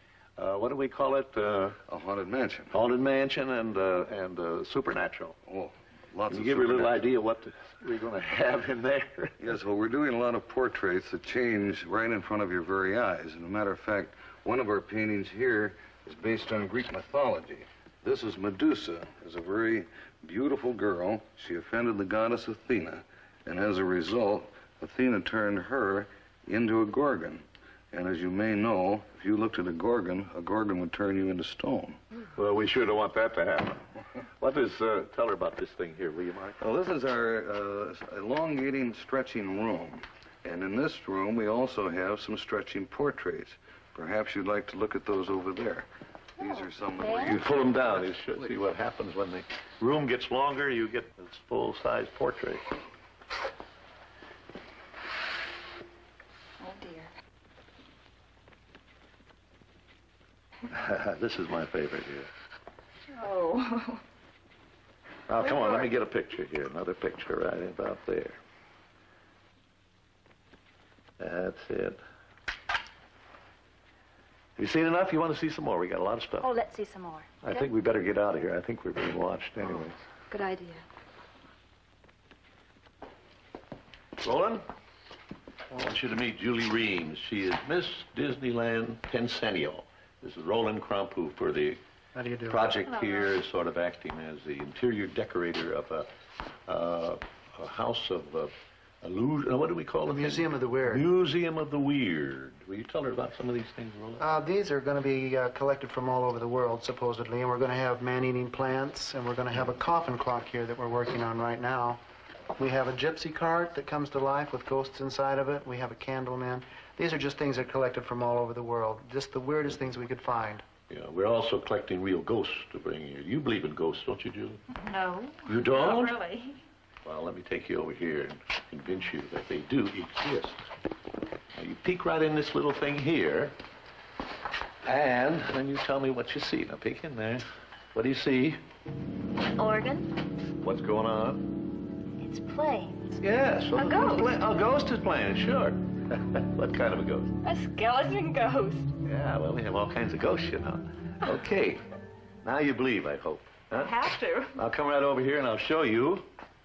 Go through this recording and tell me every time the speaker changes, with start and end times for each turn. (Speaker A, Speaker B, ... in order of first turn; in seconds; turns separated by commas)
Speaker A: 0.4-1.8, Speaker B: 1.9-2.7, Speaker A: 2.7-5.4, Speaker B: 5.5-7.0, Speaker A: 6.3-9.4, Speaker B: 9.4-32.0, Speaker A: 32.4-33.8, Speaker A: 34.4-36.6, Speaker B: 36.6-45.9, Speaker B: 46.4-47.7, Speaker C: 47.0-47.4, Speaker A: 47.2-52.6, Speaker C: 56.6-57.1, Speaker A: 60.7-62.3, Speaker C: 63.1-64.0, Speaker A: 65.3-68.4, Speaker C: 65.5-65.9, Speaker A: 71.2-72.0, Speaker A: 74.6-76.5, Speaker C: 76.4-77.3, Speaker A: 77.4-80.0, Speaker C: 80.3-80.8, Speaker A: 84.2-84.6, Speaker A: 85.7-91.8, Speaker D: 92.2-92.7, Speaker A: 92.5-96.1, Speaker A: 96.7-104.2, Speaker D: 100.1-101.1, Speaker D: 104.2-112.0, Speaker D: 112.6-120.6, Speaker A: 120.9-124.6, Speaker C: 124.8-126.6, Speaker A: 125.5-126.2, Speaker A: 127.0-130.6, Speaker A: 131.5-133.6, Speaker A: 134.8-138.6, Speaker C: 139.6-140.1, Speaker A: 140.6-141.4, Speaker C: 142.2-143.2, Speaker A: 143.2-147.4, Speaker C: 143.7-144.3, Speaker C: 147.4-148.9, Speaker A: 149.0-151.8, Speaker A: 152.4-156.3, Speaker C: 153.7-154.6